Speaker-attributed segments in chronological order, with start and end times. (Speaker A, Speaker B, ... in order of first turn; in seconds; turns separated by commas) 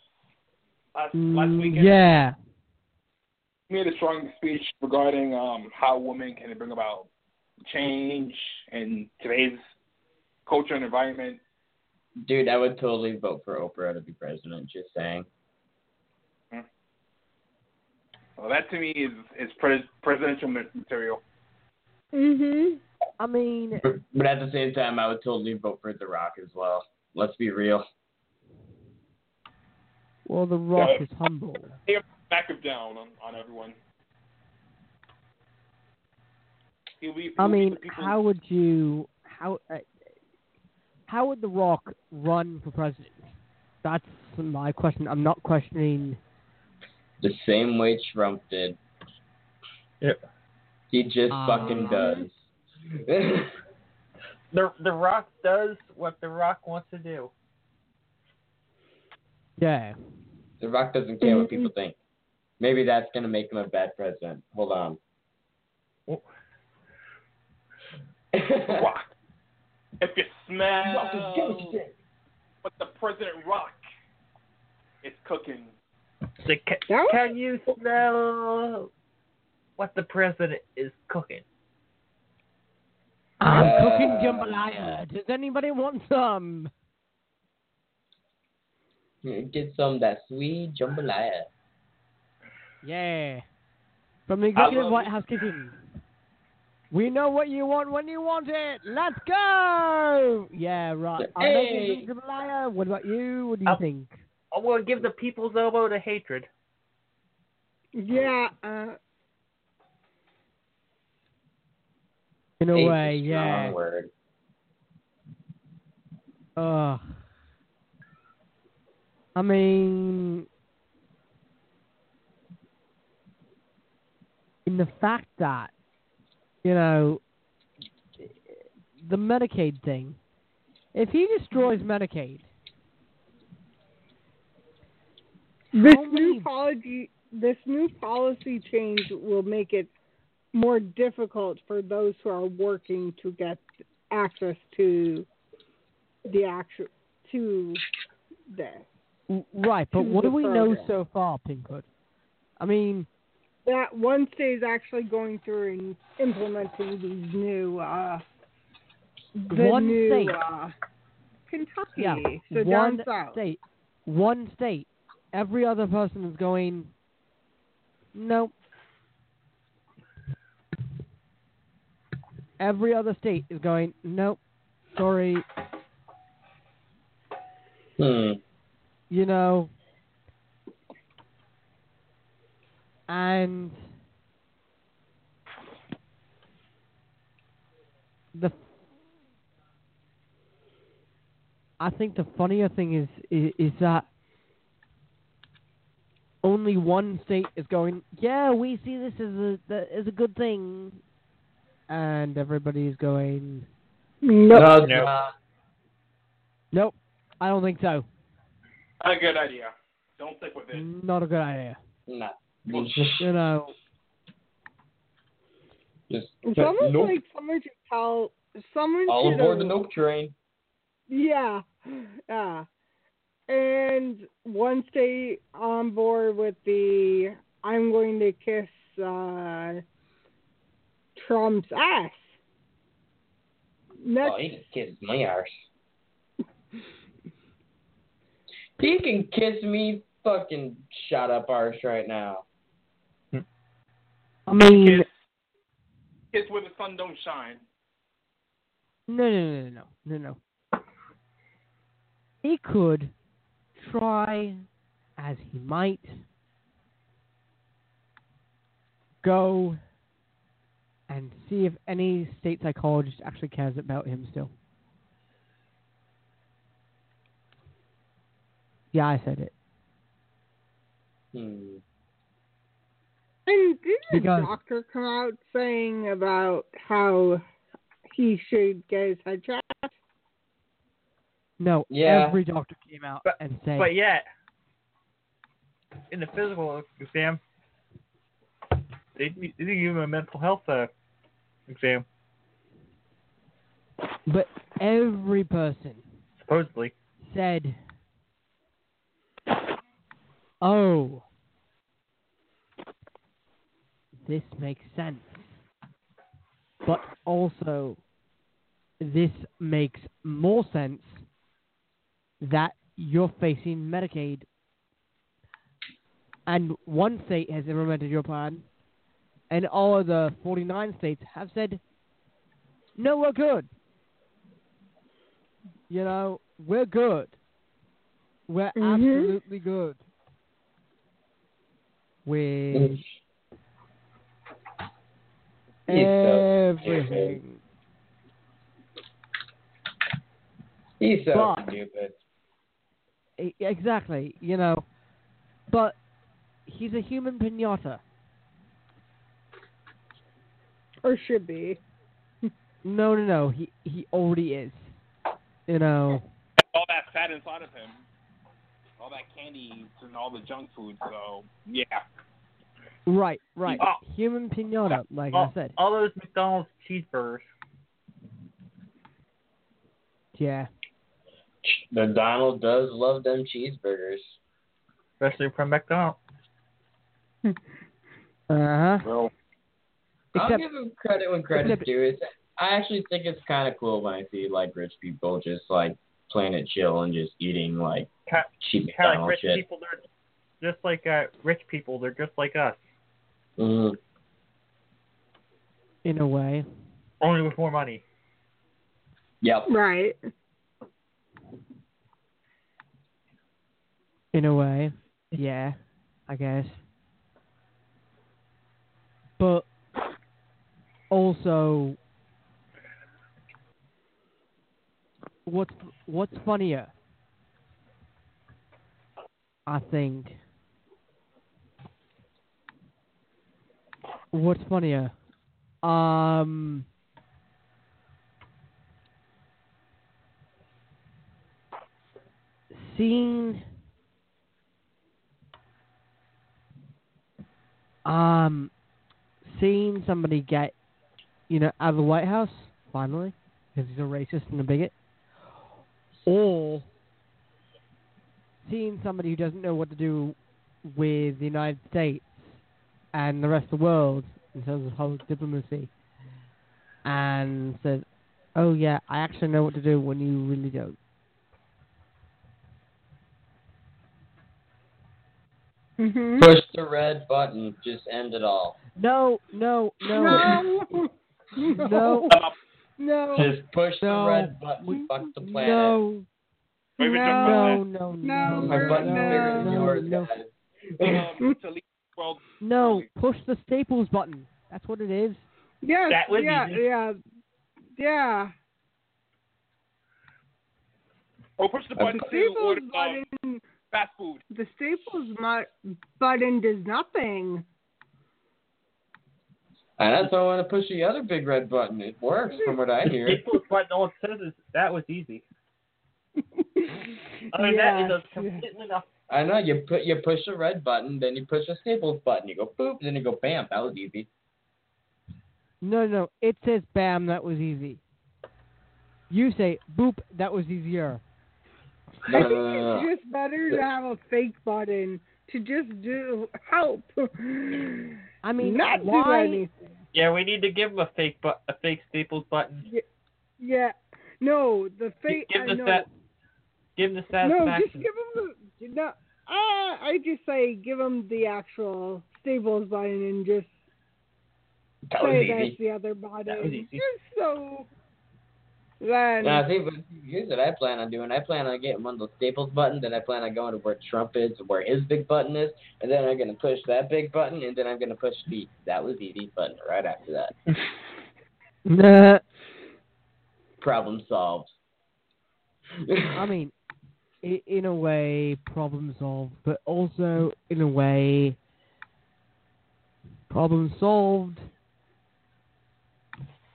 Speaker A: 0.9-2.1, Speaker B: 1.1-2.3, Speaker A: 3.7-7.1, Speaker A: 7.7-9.6, Speaker A: 10.4-11.4, Speaker C: 12.2-15.2, Speaker A: 18.4-21.2, Speaker D: 22.1-22.8, Speaker B: 23.2-23.8, Speaker C: 23.8-27.8, Speaker B: 30.2-31.8, Speaker A: 30.8-31.0, Speaker A: 31.9-33.8, Speaker A: 37.0-38.1, Speaker B: 37.4-39.9, Speaker B: 41.1-43.2, Speaker B: 43.8-46.2, Speaker C: 47.2-48.8, Speaker C: 50.9-52.4, Speaker B: 51.3-52.0, Speaker D: 51.9-52.2, Speaker C: 53.0-53.5, Speaker E: 54.5-57.3, Speaker B: 59.6-59.9, Speaker C: 60.6-61.9, Speaker D: 61.2-61.7, Speaker C: 62.6-65.0, Speaker C: 68.3-68.9, Speaker A: 68.7-69.1, Speaker A: 70.0-71.8, Speaker C: 70.8-71.9, Speaker A: 72.6-73.8, Speaker A: 75.0-75.7, Speaker E: 76.4-78.9, Speaker D: 76.9-77.3, Speaker E: 79.8-81.4, Speaker B: 83.4-86.7, Speaker C: 83.5-84.9, Speaker C: 89.2-91.5, Speaker B: 92.8-93.4, Speaker B: 94.3-95.8, Speaker A: 94.5-95.1, Speaker B: 96.9-104.1, Speaker C: 101.2-102.0, Speaker E: 104.5-106.5, Speaker D: 108.0-109.0, Speaker B: 112.6-113.7, Speaker C: 112.7-114.1, Speaker B: 116.6-117.2, Speaker B: 119.3-120.5, Speaker B: 124.7-125.7, Speaker B: 126.6-127.2, Speaker B: 128.2-130.2, Speaker B: 130.9-132.5, Speaker B: 135.7-136.5, Speaker D: 135.7-139.9, Speaker D: 140.5-145.3, Speaker D: 146.2-147.8, Speaker D: 148.5-148.9, Speaker B: 149.3-151.9, Speaker D: 149.9-150.9, Speaker B: 152.6-153.1, Speaker D: 153.6-158.2, Speaker D: 159.3-160.7, Speaker B: 159.5-160.4, Speaker D: 161.5-163.4, Speaker B: 162.0-166.9, Speaker B: 168.1-168.5, Speaker B: 172.6-174.4, Speaker B: 174.9-175.4, Speaker C: 178.0-178.4, Speaker B: 179.1-179.7, Speaker B: 183.1-183.8, Speaker B: 191.8-194.1, Speaker B: 196.4-201.0, Speaker B: 201.9-203.7, Speaker D: 204.2-204.8, Speaker C: 204.5-205.3, Speaker E: 204.7-205.1, Speaker B: 206.7-208.1, Speaker A: 209.0-210.9, Speaker B: 210.7-211.8, Speaker C: 212.1-213.3, Speaker B: 213.2-213.8, Speaker C: 216.1-217.2, Speaker D: 216.4-219.8, Speaker C: 219.1-220.3, Speaker D: 221.1-222.7, Speaker D: 223.5-229.8, Speaker D: 231.2-232.3, Speaker D: 234.0-234.4, Speaker C: 234.2-235.5, Speaker C: 238.8-242.4, Speaker B: 244.5-245.1, Speaker A: 244.7-245.1, Speaker A: 246.3-247.6, Speaker B: 249.1-250.4, Speaker B: 252.4-253.1, Speaker B: 253.8-254.6, Speaker B: 255.2-256.2, Speaker B: 259.2-259.8, Speaker B: 261.1-264.5, Speaker B: 268.9-269.5, Speaker C: 271.3-271.8, Speaker D: 273.4-277.4, Speaker B: 274.1-274.5, Speaker D: 278.1-279.9, Speaker B: 281.6-283.9, Speaker C: 281.9-282.4, Speaker E: 283.2-284.2, Speaker E: 286.1-287.4, Speaker E: 289.1-290.9, Speaker E: 291.7-292.0, Speaker B: 294.3-296.0, Speaker E: 296.4-296.9, Speaker B: 297.2-297.8, Speaker B: 300.6-301.2, Speaker B: 304.2-305.6, Speaker B: 306.8-308.0, Speaker B: 309.0-311.2, Speaker B: 312.4-314.4, Speaker B: 316.5-318.6, Speaker B: 319.5-321.8, Speaker B: 323.0-323.7, Speaker B: 325.9-327.4, Speaker B: 328.5-330.0, Speaker D: 328.8-329.3, Speaker B: 332.2-333.0, Speaker C: 332.7-333.0, Speaker C: 335.9-337.4, Speaker B: 335.9-337.6, Speaker C: 341.0-342.1, Speaker B: 341.3-341.7, Speaker B: 343.4-344.8, Speaker B: 345.7-345.9, Speaker B: 346.6-348.0, Speaker D: 351.0-351.8, Speaker B: 352.8-355.0, Speaker B: 355.7-356.3, Speaker A: 356.6-358.0, Speaker A: 359.0-362.0, Speaker B: 363.1-365.7, Speaker E: 363.7-364.0, Speaker E: 365.3-367.4, Speaker B: 370.3-370.7, Speaker C: 371.6-374.3, Speaker E: 375.2-376.2, Speaker B: 378.5-379.1, Speaker A: 379.0-379.3, Speaker B: 380.3-380.6, Speaker C: 380.3-389.6, Speaker B: 381.5-381.9, Speaker E: 388.3-390.0, Speaker E: 390.6-392.8, Speaker C: 393.6-394.0, Speaker B: 396.0-396.6, Speaker E: 397.2-398.0, Speaker C: 399.4-399.7, Speaker D: 399.7-400.2, Speaker B: 404.3-405.8, Speaker B: 406.3-406.8, Speaker B: 409.4-409.7, Speaker B: 411.1-412.0, Speaker B: 415.4-416.9, Speaker B: 419.7-420.4, Speaker B: 424.3-425.1, Speaker B: 425.8-426.9, Speaker B: 432.7-433.6, Speaker B: 438.0-438.7, Speaker B: 439.4-440.7, Speaker B: 441.5-444.9, Speaker B: 446.2-446.9, Speaker B: 448.6-452.6, Speaker B: 453.1-455.9, Speaker B: 457.0-458.0, Speaker B: 458.6-461.0, Speaker D: 466.0-466.5, Speaker C: 466.4-468.8, Speaker B: 468.9-470.5, Speaker D: 470.2-472.4, Speaker C: 470.2-470.6, Speaker B: 471.8-472.3, Speaker A: 472.3-472.5, Speaker D: 473.0-473.5, Speaker C: 473.3-476.0, Speaker B: 474.0-476.3, Speaker A: 477.0-477.8, Speaker D: 477.0-479.9, Speaker B: 477.3-480.3, Speaker C: 478.5-481.2, Speaker A: 481.0-483.1, Speaker B: 482.6-485.4, Speaker D: 485.8-487.2, Speaker E: 486.1-486.8, Speaker D: 487.9-488.5, Speaker A: 491.6-493.2, Speaker D: 492.0-493.6, Speaker A: 493.9-494.4, Speaker D: 494.5-497.6, Speaker C: 500.0-503.4, Speaker E: 503.1-505.4, Speaker D: 506.6-508.6, Speaker E: 507.5-509.0, Speaker C: 509.3-514.3, Speaker B: 515.8-518.0, Speaker B: 519.3-521.2, Speaker C: 522.3-523.1, Speaker D: 522.3-529.7, Speaker B: 528.4-529.6, Speaker E: 530.1-532.8, Speaker D: 533.6-536.1, Speaker E: 535.3-536.0, Speaker E: 537.0-538.0, Speaker D: 537.4-543.8, Speaker C: 545.1-545.8, Speaker D: 545.2-547.9, Speaker E: 546.5-547.0, Speaker D: 549.0-549.7, Speaker C: 549.4-560.5, Speaker B: 561.9-562.4, Speaker C: 563.8-564.7, Speaker C: 566.0-566.5, Speaker B: 566.3-566.7, Speaker B: 567.4-571.6, Speaker B: 573.5-574.7